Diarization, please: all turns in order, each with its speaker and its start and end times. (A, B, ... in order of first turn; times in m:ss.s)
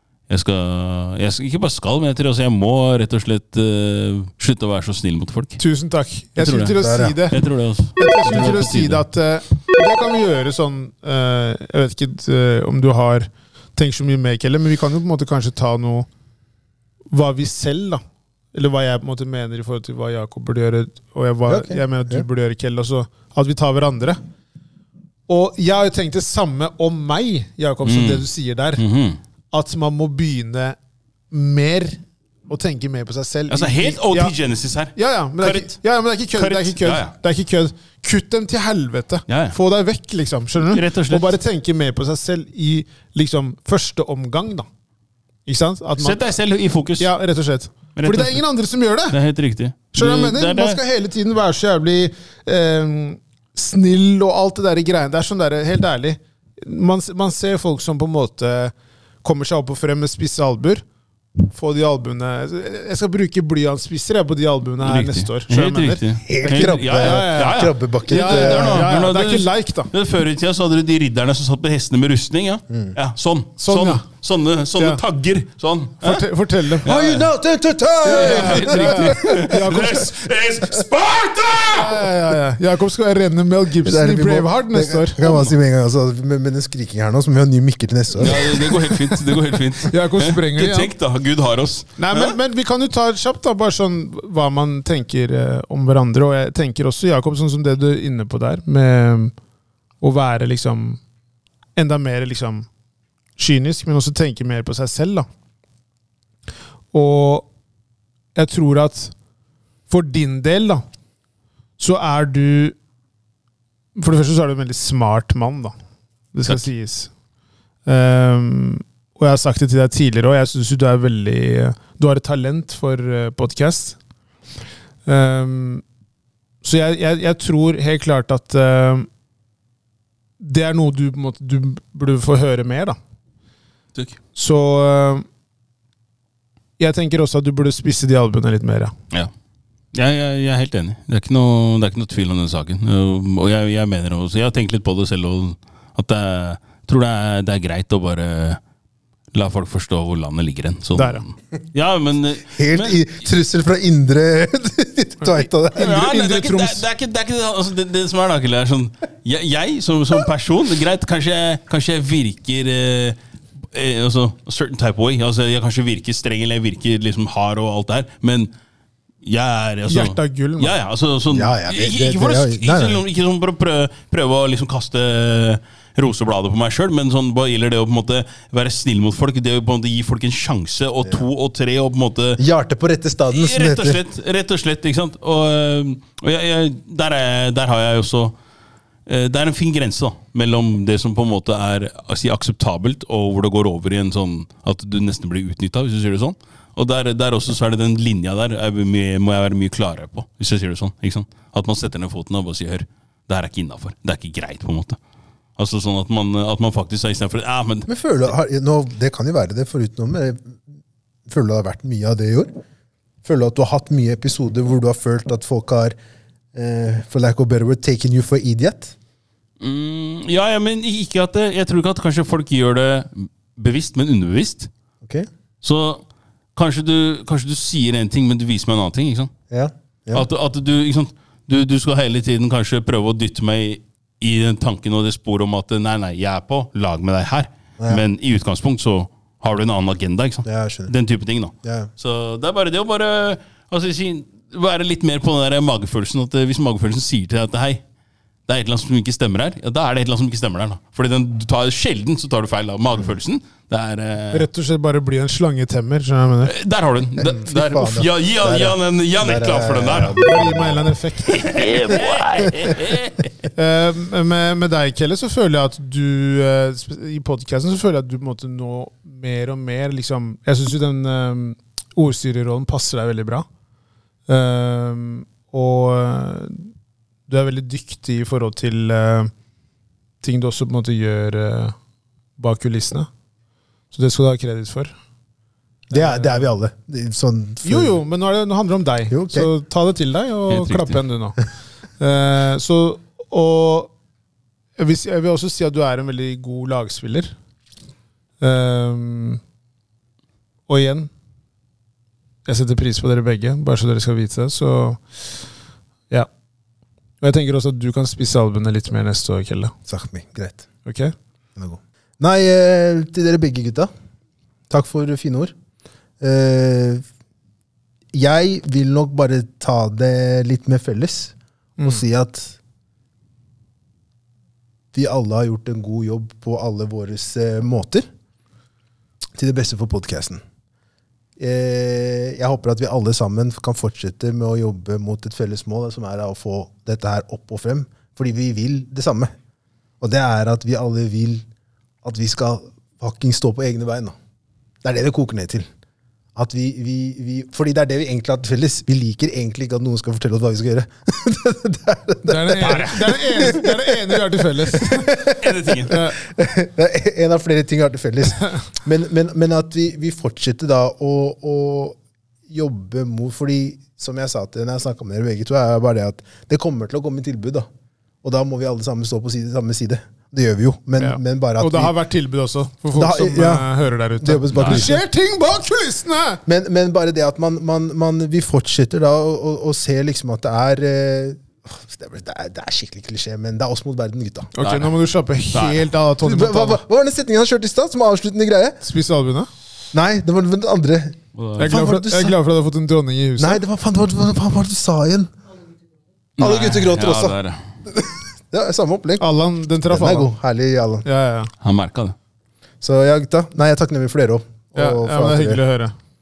0:00.3-0:05.6 A
0:05.6-0:07.4 B
0:06.4-0:06.7 A
0:06.8-0:07.2 C
0:07.3-0:09.0 A
0:08.0-0:16.1 B
0:17.1-0:18.0 B
0:18.5-0:24.2 B
0:21.5-0:22.2 C
0:25.3-0:28.8 B
0:27.8-0:28.2 A
0:28.8-0:29.2 A
0:29.5-0:30.8 B
0:31.3-0:34.3 B
0:33.5-0:35.7 A
0:35.0-0:44.7 B
0:36.3-0:37.1 A
0:39.3-0:39.6 A
0:40.6-0:41.4 A
0:45.4-0:46.2 B
0:46.0-0:47.1 A
0:47.0-0:49.2 B
0:48.0-0:48.4 A
0:49.1-0:50.8 A
0:49.9-1:00.8 B
1:01.4-1:09.9 B
1:04.8-1:16.2 A
1:06.2-1:08.9 C
1:13.6-1:14.0 B
1:16.0-1:16.9 B
1:16.8-1:17.3 A
1:16.8-1:20.0 C
1:18.0-1:20.1 B
1:18.0-1:22.1 A
1:21.7-1:25.3 B
1:23.8-1:28.9 C
1:25.2-1:25.5 A
1:28.2-1:32.4 A
1:29.8-1:30.9 B
1:32.0-1:39.3 B
1:40.0-1:41.0 B
1:41.8-1:42.7 B
1:43.4-1:45.3 B
1:46.9-1:47.5 B
1:48.3-1:49.1 B
1:49.9-1:50.8 B
1:51.8-1:52.8 B
1:54.0-1:55.7 B
1:56.3-1:57.1 B
1:57.8-2:04.0 B
2:05.0-2:05.8 B
2:06.6-2:09.1 B
2:10.4-2:13.0 B
2:14.3-2:15.2 B
2:16.8-2:18.9 B
2:19.9-2:28.6 A
2:29.3-2:33.0 A
2:30.9-2:31.2 B
2:32.5-2:36.0 C
2:35.7-2:43.2 A
2:35.8-2:36.8 B
2:43.7-2:48.5 A
2:49.2-3:02.4 A
2:49.9-2:50.8 B
2:51.3-2:53.0 C
3:02.4-3:04.0 C
3:03.3-3:08.3 A
3:09.1-3:25.0 A
3:25.6-3:28.3 A
3:27.9-3:30.6 C
3:31.3-3:32.5 C
3:33.2-3:35.9 C
3:36.5-3:38.9 C
3:39.6-3:44.7 A
3:45.0-3:45.3 C
3:45.6-3:46.0 A
3:46.6-3:49.3 A
3:49.5-3:50.2 C
3:50.1-4:07.8 A
4:00.4-4:00.9 C
4:01.6-4:01.9 C
4:08.5-4:14.5 A
4:14.3-4:16.5 B
4:16.4-4:20.2 A
4:17.2-4:20.9 C
4:20.2-4:21.8 B
4:21.2-4:23.3 A
4:23.5-4:33.4 B
4:34.3-4:36.7 B
4:37.3-4:39.3 B
4:40.2-4:41.8 B
4:42.4-4:43.1 B
4:43.9-4:44.9 B
4:45.9-4:48.0 C
4:45.9-4:46.5 B
4:47.6-4:51.4 B
4:49.1-4:49.5 C
4:50.5-4:51.0 A
4:52.0-4:53.9 B
4:54.8-4:57.3 B
4:58.4-4:59.4 B
5:00.7-5:01.1 B
5:02.4-5:05.0 B
5:07.2-5:09.7 B
5:09.9-5:10.6 C
5:10.8-5:11.1 B
5:11.6-5:13.9 C
5:14.7-5:15.5 C
5:16.2-5:17.0 C
5:18.1-5:22.6 C
5:24.9-5:28.1 C
5:29.4-5:30.4 C
5:31.4-5:39.3 C
5:40.0-5:41.4 C
5:42.0-5:44.1 C
5:44.8-5:45.7 C
5:46.3-6:02.0 C
5:52.3-5:55.2 B
5:55.3-5:55.9 A
5:55.9-5:56.2 B
6:02.5-6:07.7 C
6:08.2-6:11.9 C
6:11.0-6:16.4 B
6:12.9-6:15.0 C
6:14.5-6:14.9 A
6:16.4-6:24.5 C
6:24.6-6:26.8 B
6:24.6-6:24.9 A
6:25.5-6:25.9 A
6:26.2-6:28.8 C
6:28.8-6:29.5 B
6:29.9-6:32.4 C
6:31.3-6:31.8 A
6:31.6-6:33.6 B
6:33.4-6:35.3 C
6:36.4-6:37.6 A
6:36.4-6:39.2 C
6:39.2-6:40.3 B
6:39.8-6:41.1 C
6:41.0-6:41.5 B
6:41.6-6:42.1 A
6:42.8-6:45.6 C
6:44.8-6:45.9 B